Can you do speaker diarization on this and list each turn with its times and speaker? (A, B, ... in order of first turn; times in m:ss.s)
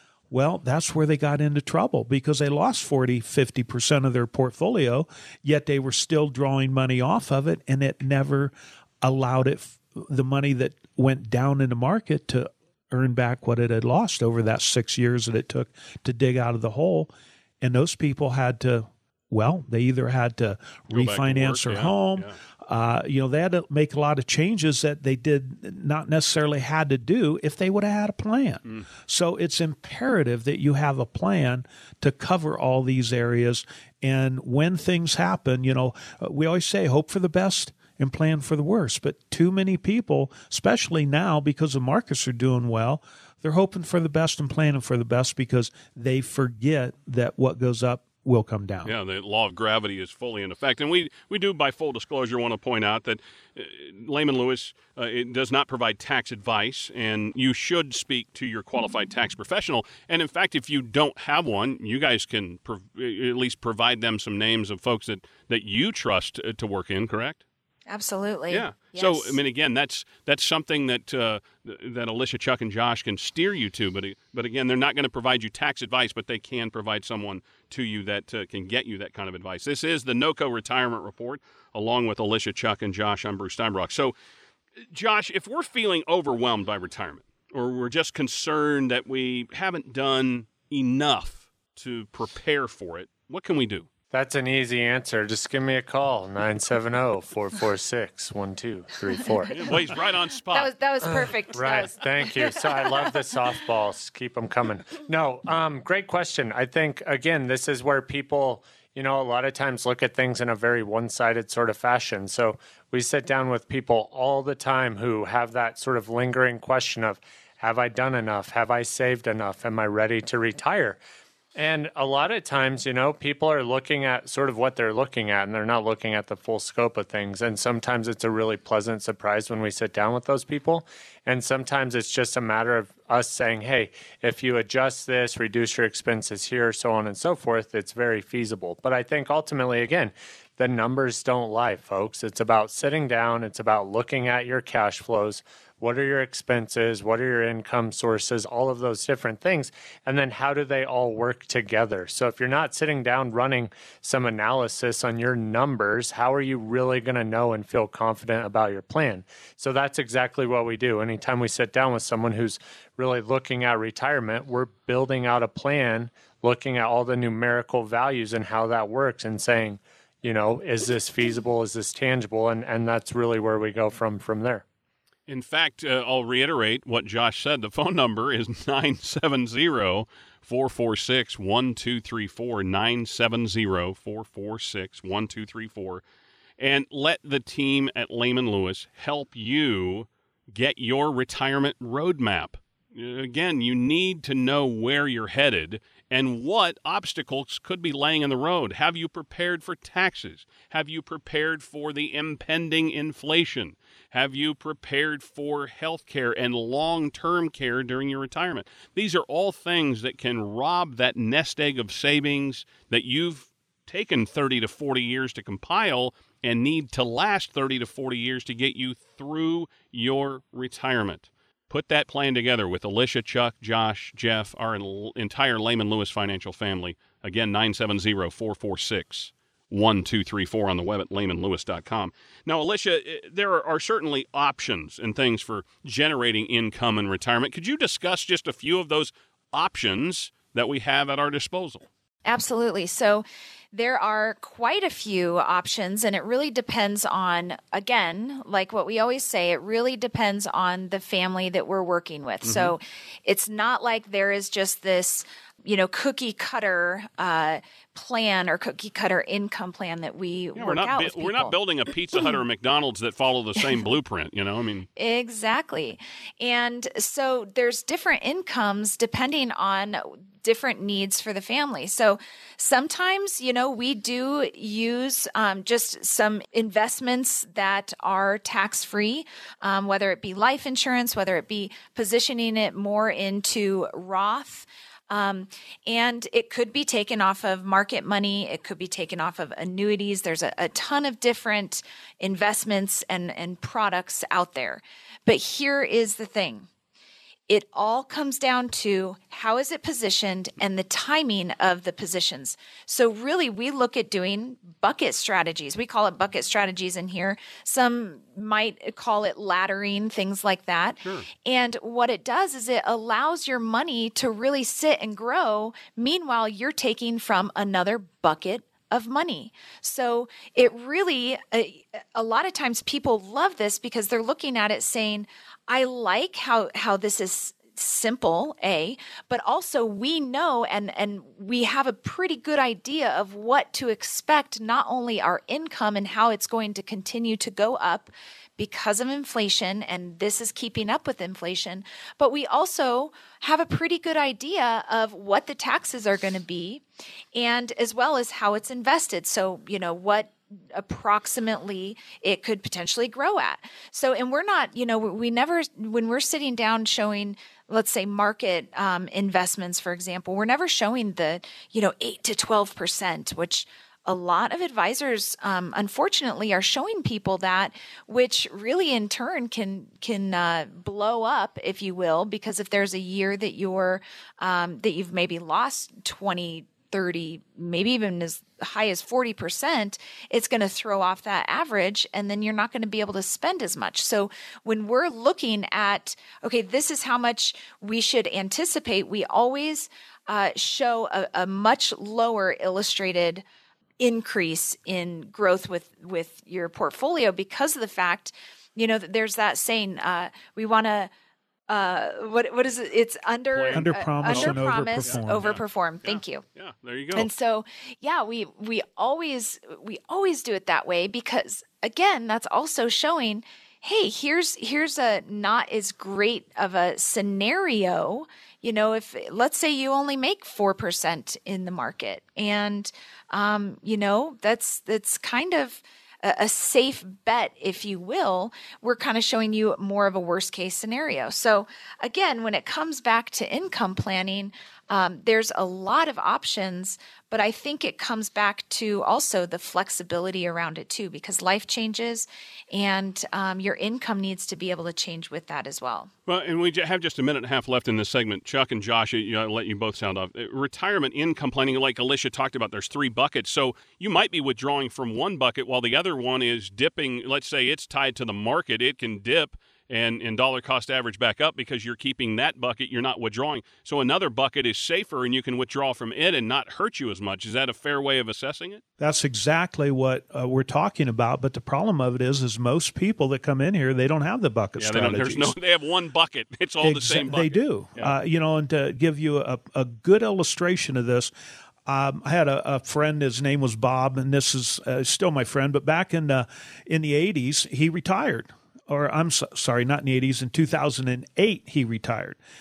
0:00.3-0:48.9 A
0:20.9-0:22.4 B
0:48.8-1:07.4 B
1:07.9-1:09.4 C
1:08.5-1:24.1 B
1:24.9-1:33.9 B
1:34.1-1:39.7 D
1:39.5-1:40.7 B
1:40.5-1:42.0 C
1:41.5-2:01.0 D
2:01.5-2:54.6 D
2:55.3-3:06.0 B
3:06.6-4:01.9 B
4:02.2-4:21.6 C
4:12.4-4:12.7 B
4:20.6-4:24.9 B
4:25.0-4:56.7 C
4:57.5-5:46.8 C
5:11.0-5:11.3 B
5:47.3-6:33.4 C
6:34.0-6:41.1 C
6:41.7-6:46.4 C
6:43.5-6:47.3 B
6:43.7-6:45.5 A
6:47.1-7:26.1 C
7:26.3-7:48.8 B
7:49.0-7:55.5 A
7:54.8-7:58.1 B
7:56.8-8:01.3 A
8:01.8-8:12.4 A